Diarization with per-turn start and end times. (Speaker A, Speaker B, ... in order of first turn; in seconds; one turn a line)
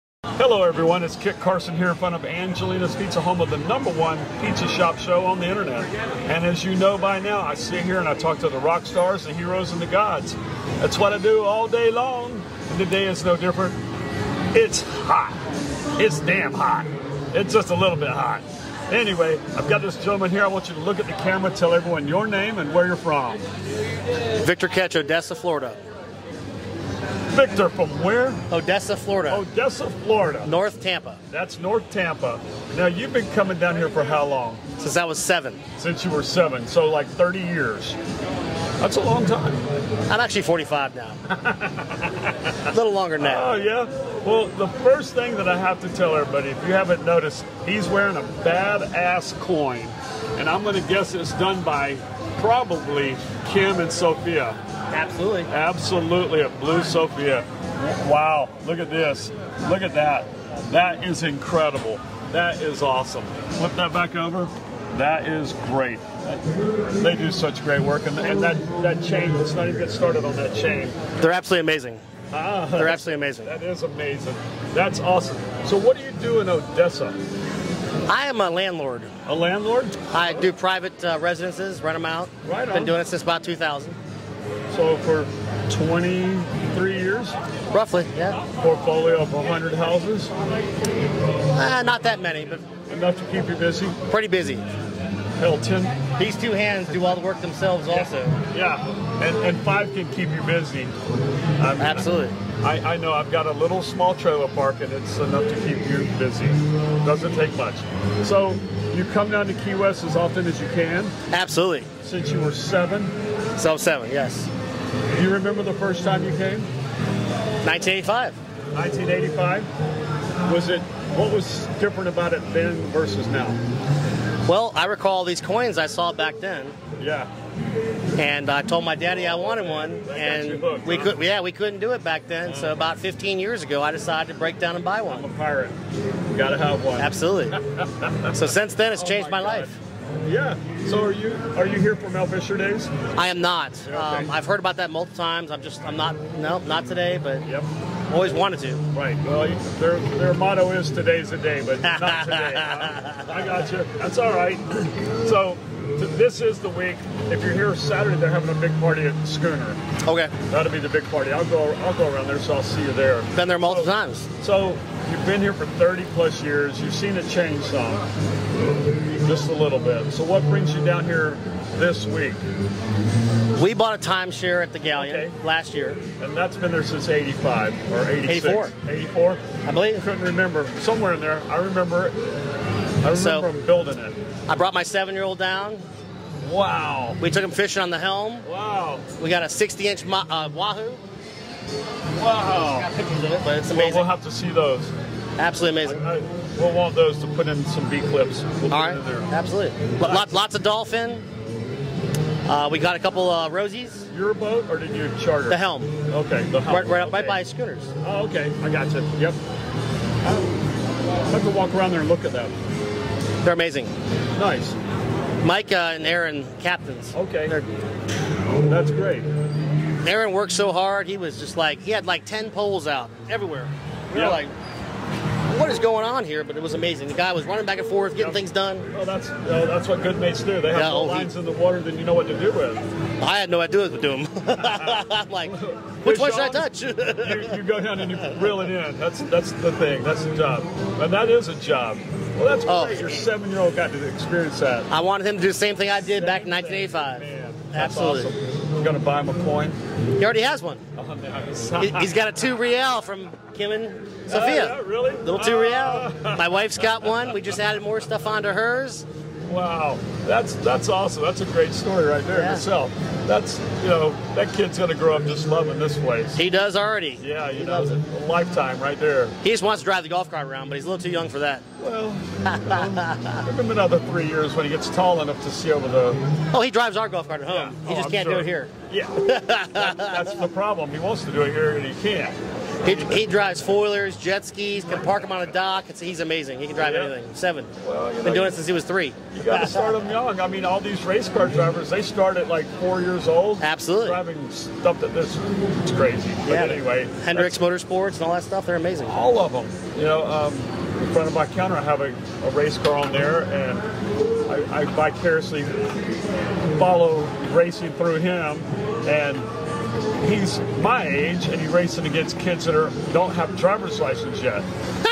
Speaker A: 0.4-13.8
Speaker A: 14.5-15.4
Speaker A: 16.0-23.4
Speaker B: 24.3-25.8
Speaker A: 27.3-28.4
Speaker B: 28.5-29.4
Speaker A: 29.3-30.5
Speaker B: 30.4-31.2
Speaker A: 31.3-34.6
Speaker B: 34.8-35.6
Speaker A: 35.8-38.0
Speaker A: 38.8-39.6
Speaker B: 40.1-41.2
Speaker A: 41.3-42.6
Speaker B: 42.7-43.5
Speaker A: 43.2-54.6
Speaker B: 54.9-55.5
Speaker A: 55.5-71.0
Speaker B: 71.2-72.0
Speaker A: 72.3-77.2
Speaker B: 72.7-73.5
Speaker B: 78.1-79.1
Speaker A: 79.2-80.5
Speaker B: 80.1-84.0
Speaker A: 82.4-83.0
Speaker A: 84.7-87.4
Speaker B: 87.7-88.4
Speaker A: 88.6-90.3
Speaker B: 91.5-92.7
Speaker A: 92.9-94.0
Speaker B: 94.1-94.7
Speaker A: 95.4-96.0
Speaker B: 96.2-98.4
Speaker A: 97.9-100.9
Speaker A: 101.6-111.1
Speaker B: 101.8-102.4
Speaker B: 111.3-111.9
Speaker A: 112.0-113.2
Speaker B: 113.6-114.5
Speaker A: 115.1-116.7
Speaker B: 117.6-118.4
Speaker A: 118.7-119.7
Speaker A: 120.4-123.6
Speaker B: 124.5-126.8
Speaker A: 127.0-127.3
Speaker B: 128.2-135.3
Speaker A: 129.2-131.2
Speaker A: 132.4-132.9
Speaker A: 135.1-135.8
Speaker A: 136.3-142.9
Speaker B: 137.0-137.6
Speaker B: 138.3-139.8
Speaker B: 143.1-147.5
Speaker A: 143.8-144.3
Speaker A: 147.4-147.7
Speaker B: 148.1-148.8
Speaker A: 148.9-159.8
Speaker B: 151.8-153.5
Speaker B: 160.1-160.3
Speaker A: 160.5-168.0
Speaker B: 163.3-164.3
Speaker A: 169.2-172.4
Speaker B: 173.6-176.0
Speaker A: 174.9-175.4
Speaker A: 176.2-179.4
Speaker B: 178.2-178.7
Speaker B: 179.7-180.1
Speaker A: 179.9-182.2
Speaker A: 183.0-184.2
Speaker B: 183.1-183.5
Speaker B: 184.5-185.9
Speaker A: 186.4-187.2
Speaker B: 187.2-188.5
Speaker A: 188.4-189.1
Speaker B: 189.2-191.0
Speaker A: 192.1-192.9
Speaker B: 192.6-194.1
Speaker A: 193.7-194.9
Speaker B: 195.4-196.0
Speaker A: 195.8-199.3
Speaker B: 198.7-201.2
Speaker A: 200.0-200.3
Speaker B: 202.4-204.1
Speaker A: 204.1-207.4
Speaker B: 205.5-205.9
Speaker B: 206.7-207.9
Speaker A: 208.0-209.4
Speaker A: 210.2-210.5
Speaker A: 211.3-212.6
Speaker B: 213.4-213.9
Speaker A: 214.4-214.8
Speaker B: 215.4-217.7
Speaker A: 217.1-217.6
Speaker A: 218.6-219.3
Speaker B: 220.0-224.5
Speaker A: 224.1-224.4
Speaker B: 225.5-228.9
Speaker A: 228.2-232.9
Speaker B: 230.7-231.3
Speaker B: 233.2-237.6
Speaker A: 234.6-244.9
Speaker B: 242.7-243.3
Speaker B: 244.9-248.3
Speaker A: 246.1-249.8
Speaker B: 250.2-250.8
Speaker A: 250.9-252.1
Speaker B: 251.8-259.1
Speaker A: 254.3-257.1
Speaker A: 259.4-266.4
Speaker B: 262.3-262.7
Speaker B: 266.4-268.0
Speaker A: 267.2-269.4
Speaker B: 269.4-271.6
Speaker A: 271.8-276.2
Speaker B: 272.4-273.4
Speaker B: 276.5-278.7
Speaker A: 277.5-283.3
Speaker B: 279.2-280.4
Speaker B: 282.8-290.0
Speaker A: 286.8-287.1
Speaker A: 287.8-288.6
Speaker A: 289.3-297.6
Speaker B: 293.6-294.2
Speaker B: 296.4-299.2
Speaker A: 299.1-303.9
Speaker A: 304.5-305.8
Speaker A: 306.7-309.5
Speaker A: 310.2-314.7